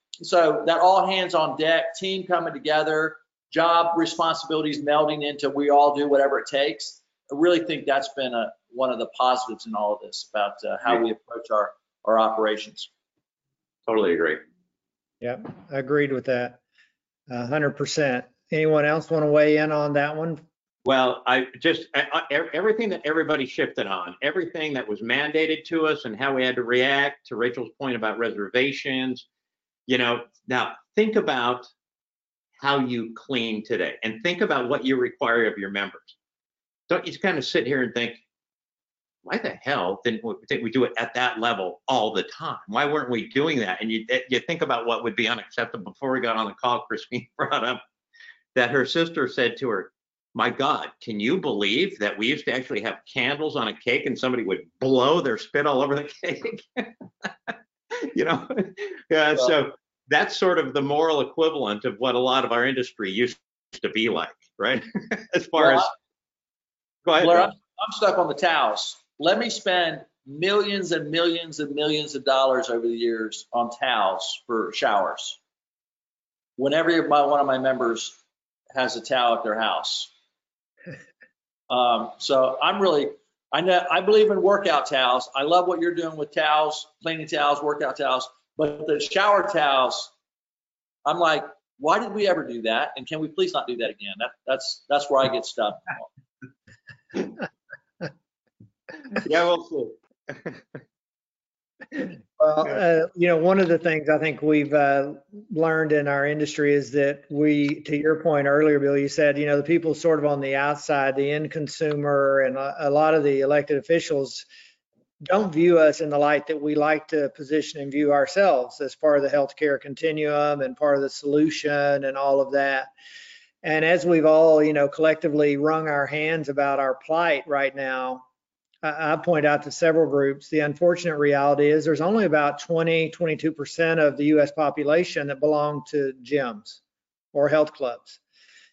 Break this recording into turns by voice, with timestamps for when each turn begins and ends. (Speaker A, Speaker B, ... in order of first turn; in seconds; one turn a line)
Speaker A: 0.2-12.9
Speaker B: 13.9-14.4
Speaker C: 15.2-16.6
Speaker C: 17.3-20.4
Speaker B: 20.9-29.3
Speaker B: 29.9-31.7
Speaker B: 32.6-36.2
Speaker B: 36.9-38.2
Speaker B: 39.2-47.8
Speaker B: 48.5-57.5
Speaker B: 58.1-65.9
Speaker A: 65.6-65.9
Speaker B: 67.1-67.5
Speaker A: 67.2-75.4
Speaker A: 76.6-78.2
Speaker A: 78.7-80.1
Speaker A: 81.7-90.1
Speaker A: 91.0-96.1
Speaker B: 99.2-100.6
Speaker C: 102.4-114.5
Speaker C: 115.2-122.9
Speaker C: 123.6-128.2
Speaker C: 128.8-136.8
Speaker C: 137.3-138.2